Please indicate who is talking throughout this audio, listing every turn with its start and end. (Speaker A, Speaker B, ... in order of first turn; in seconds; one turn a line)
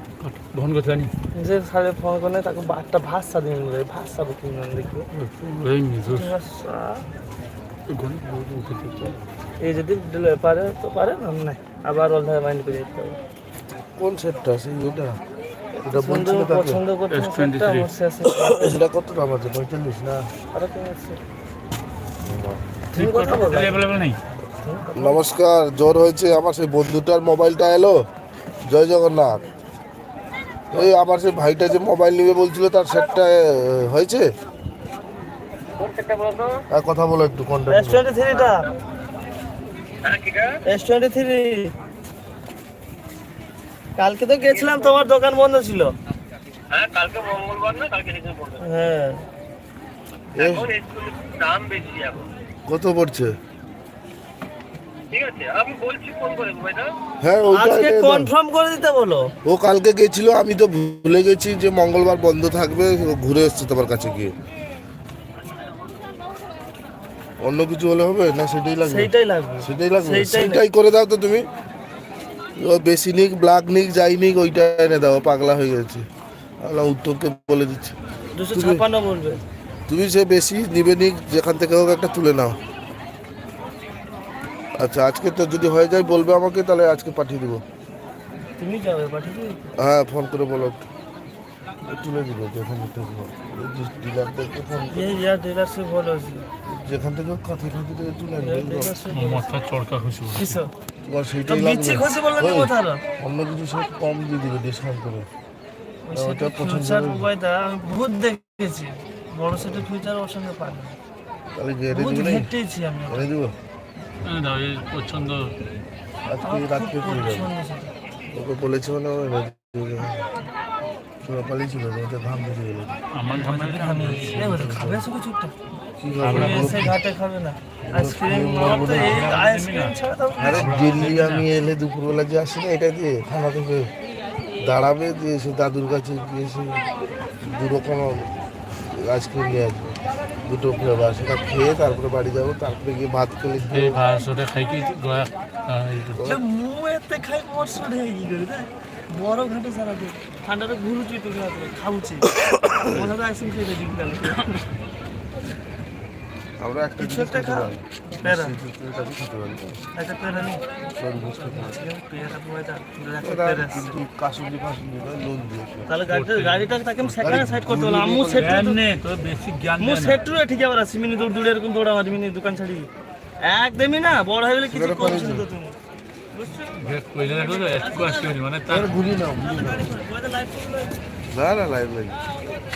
Speaker A: 0.2-1.1
Speaker B: 1.3-5.1
Speaker A: 5.1-6.4
Speaker B: 6.1-7.0
Speaker A: 7.9-9.2
Speaker B: 9.6-13.2
Speaker C: 14.0-15.2
Speaker B: 15.8-18.8
Speaker C: 15.8-16.8
Speaker A: 17.1-17.9
Speaker C: 18.2-20.3
Speaker B: 20.5-21.2
Speaker C: 22.2-22.7
Speaker B: 22.9-23.8
Speaker A: 22.9-24.2
Speaker B: 24.6-25.2
Speaker C: 24.9-28.0
Speaker C: 28.7-29.4
Speaker C: 30.7-34.3
Speaker D: 35.8-36.5
Speaker C: 36.7-38.1
Speaker B: 37.7-38.7
Speaker D: 40.1-40.5
Speaker B: 40.7-41.7
Speaker B: 44.0-45.9
Speaker D: 46.7-48.5
Speaker B: 48.6-49.3
Speaker C: 50.4-50.8
Speaker D: 50.9-52.2
Speaker C: 52.7-53.3
Speaker D: 55.1-56.9
Speaker C: 57.2-58.3
Speaker B: 57.5-59.3
Speaker C: 59.4-64.3
Speaker C: 67.4-71.5
Speaker B: 68.8-70.6
Speaker C: 72.6-76.0
Speaker C: 76.6-78.0
Speaker B: 78.4-79.4
Speaker C: 78.5-78.9
Speaker C: 79.9-82.6
Speaker C: 84.8-87.6
Speaker B: 88.6-89.6
Speaker C: 89.8-90.8
Speaker C: 91.8-95.2
Speaker B: 94.9-96.5
Speaker C: 96.7-99.0
Speaker B: 98.4-99.5
Speaker A: 99.1-100.6
Speaker B: 100.3-100.7
Speaker C: 101.1-105.3
Speaker B: 101.5-103.0
Speaker B: 106.1-111.0
Speaker C: 106.1-107.3
Speaker C: 111.5-112.5
Speaker B: 111.9-113.3
Speaker C: 113.1-113.6
Speaker A: 114.2-115.6
Speaker C: 116.3-117.5
Speaker B: 116.4-117.9
Speaker C: 118.3-120.2
Speaker C: 121.2-123.0
Speaker A: 123.1-124.5
Speaker B: 123.3-125.5
Speaker C: 124.4-125.0
Speaker C: 126.0-127.0
Speaker A: 126.2-127.0
Speaker B: 126.3-130.7
Speaker C: 127.8-129.5
Speaker A: 128.7-131.5
Speaker C: 130.4-133.9
Speaker C: 134.6-136.9
Speaker C: 137.4-138.3
Speaker C: 138.8-144.0
Speaker A: 143.6-146.3
Speaker C: 146.1-146.4
Speaker B: 146.2-152.3
Speaker C: 152.4-153.1
Speaker B: 152.9-154.7
Speaker C: 156.6-159.8
Speaker B: 157.0-158.5
Speaker B: 160.0-160.7
Speaker C: 161.0-161.8
Speaker B: 161.3-164.0
Speaker C: 163.2-165.9
Speaker B: 165.9-168.8
Speaker A: 166.1-167.7
Speaker C: 167.2-168.7
Speaker A: 168.3-170.2
Speaker B: 169.8-172.9
Speaker B: 173.4-175.8
Speaker C: 174.7-175.5
Speaker B: 176.3-178.4
Speaker A: 176.7-179.1
Speaker C: 178.7-179.9
Speaker B: 179.3-181.0
Speaker C: 181.3-182.2